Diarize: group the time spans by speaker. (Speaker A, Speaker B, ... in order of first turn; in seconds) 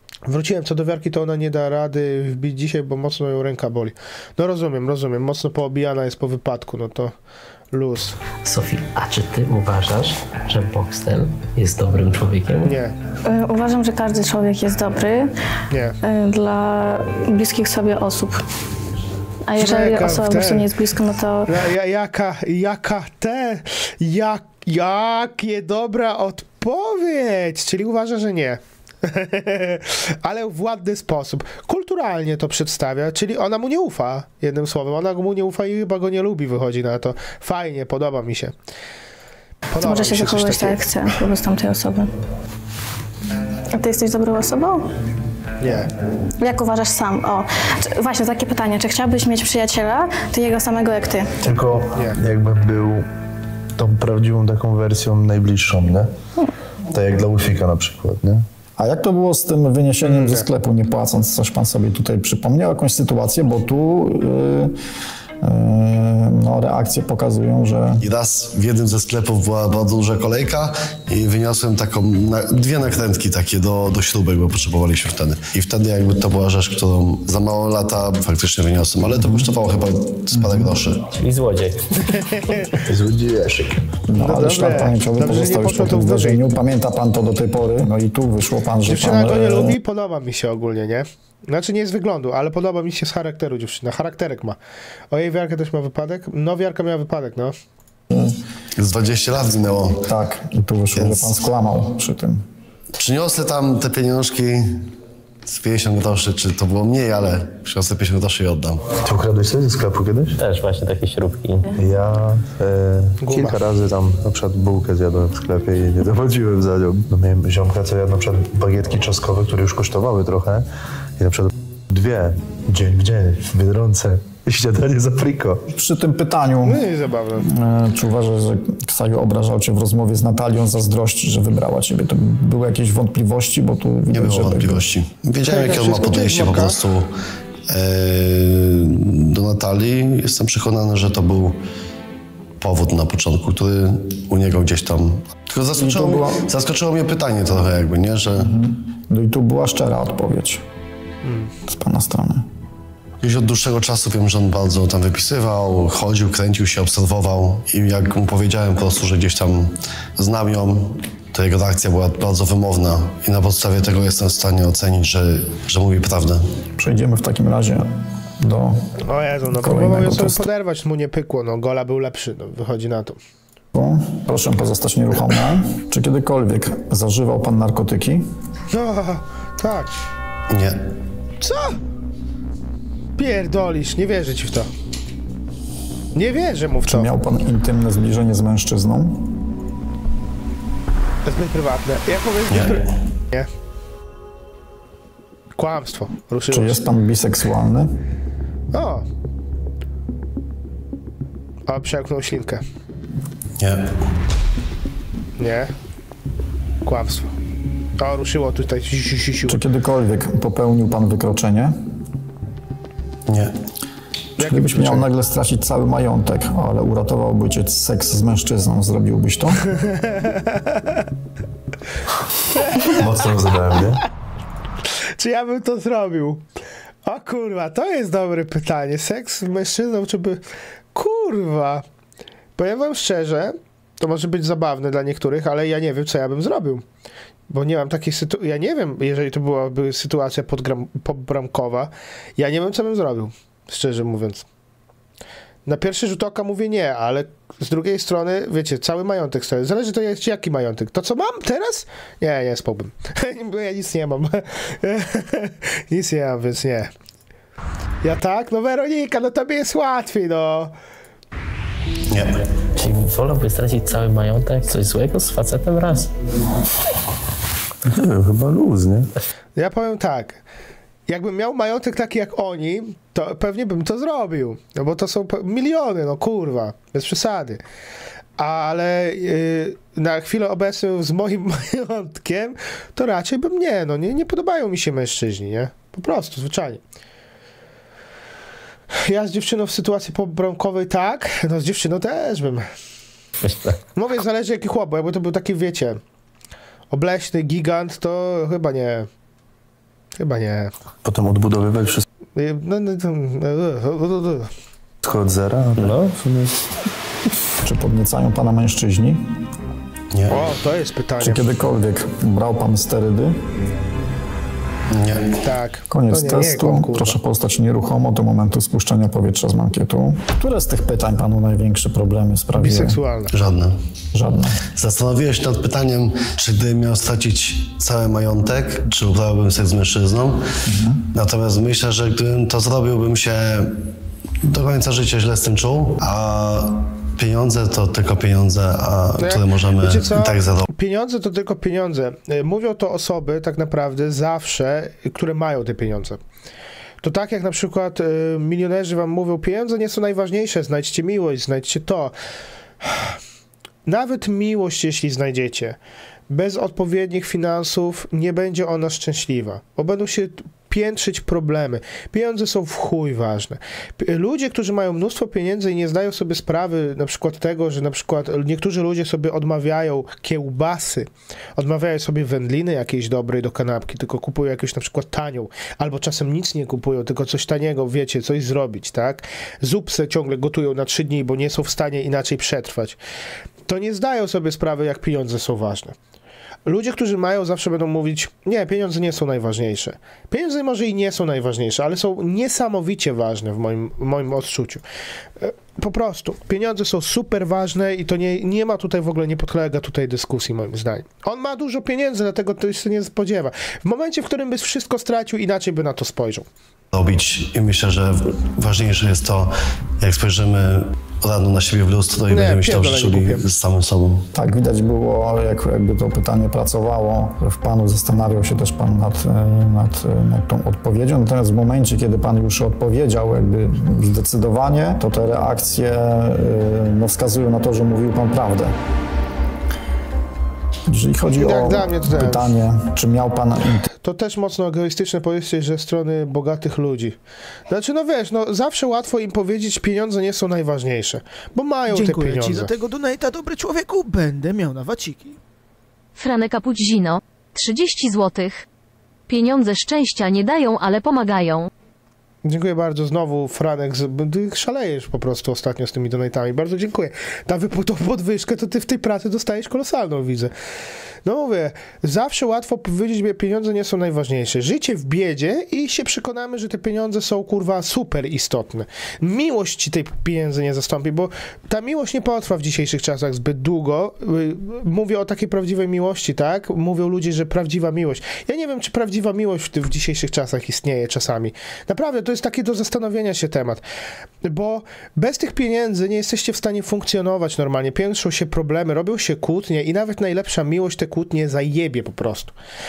Speaker A: 0.3-7.1, 7.7-8.2, 12.6-12.9, 15.7-15.9, 19.6-20.7, 21.4-38.5, 39.7-40.8, 45.6-45.9, 60.0-60.4, 82.0-82.7, 84.2-86.5, 88.9-94.6, 95.1-97.6, 113.2-113.6, 126.6-127.5, 135.5-136.8, 151.2-151.5, 169.1-173.2, 178.7-179.9, 181.4-181.8, 183.2-184.7, 186.1-187.1, 191.2-193.5, 195.6-196.8, 198.7-199.1, 201.7-202.6, 205.4-205.7, 206.8-207.3, 208.0-209.6, 214.4-215.1, 219.8-221.0, 222.6-222.9, 225.2-226.4, 227.1-230.4, 230.9-231.8, 232.6-236.8, 237.5-244.5, 245.7-256.9, 258.0-260.7, 269.6-270.4, 271.1-277.6, 278.4-286.8, 289.0-292.7, 293.9-296.0, 296.9-299.1, 300.2-300.7, 302.4-304.5, 310.3-311.4, 315.4-317.2, 322.6-323.3, 339.2-346.2, 347.0-352.1, 352.8-353.1, 353.9-355.8, 356.3-383.0, 383.7-385.9, 386.6-394.8, 395.4-406.5, 412.3-413.4, 431.3-432.5, 434.0-437.2, 437.7-442.7, 452.4-460.5, 461.2-483.8, 484.4-492.5
Speaker B: 8.4-12.8, 81.2-81.9, 110.4-111.7, 262.8-266.1, 293.4-293.8, 305.8-306.1
Speaker C: 13.2-15.3, 16.0-18.4, 19.5-21.5, 39.8-42.1, 43.7-44.9, 46.4-51.3
Speaker D: 51.4-53.1, 53.8-56.1, 56.9-58.4, 82.8-83.8, 109.0-110.4, 111.8-120.7, 121.2-125.6, 222.8-224.0, 267.9-269.1, 301.1-302.0, 305.0-306.6
Speaker E: 58.8-64.8, 65.4-68.1, 79.1-79.5, 80.3-80.7, 84.1-89.8, 100.1-102.4, 125.7-126.8, 127.4-134.8, 145.7-146.4, 148.4-150.6, 151.7-152.4, 166.8-168.8, 169.5-170.4, 173.7-178.3, 186.9-189.4, 196.5-198.0, 209.4-211.7, 214.4-219.7, 307.6-309.2, 311.2-313.4, 315.9-323.0, 324.1-324.6, 330.6-331.0, 414.3-428.8, 430.9-433.9
Speaker F: 68.0-81.0, 98.8-100.1, 101.0-101.3, 103.0-104.9, 105.5-108.9, 134.1-137.1, 137.7-141.6, 142.6-148.5, 153.2-166.5, 180.5-180.8, 192.5-192.8, 203.6-203.9, 213.3-213.5, 262.1-262.4, 310.1-310.4, 314.9-315.3, 323.3-323.8, 324.7-330.4, 331.1-333.7, 334.4-340.6, 406.9-414.2
Speaker G: 441.9-445.4
Speaker H: 446.2-448.6, 449.3-451.7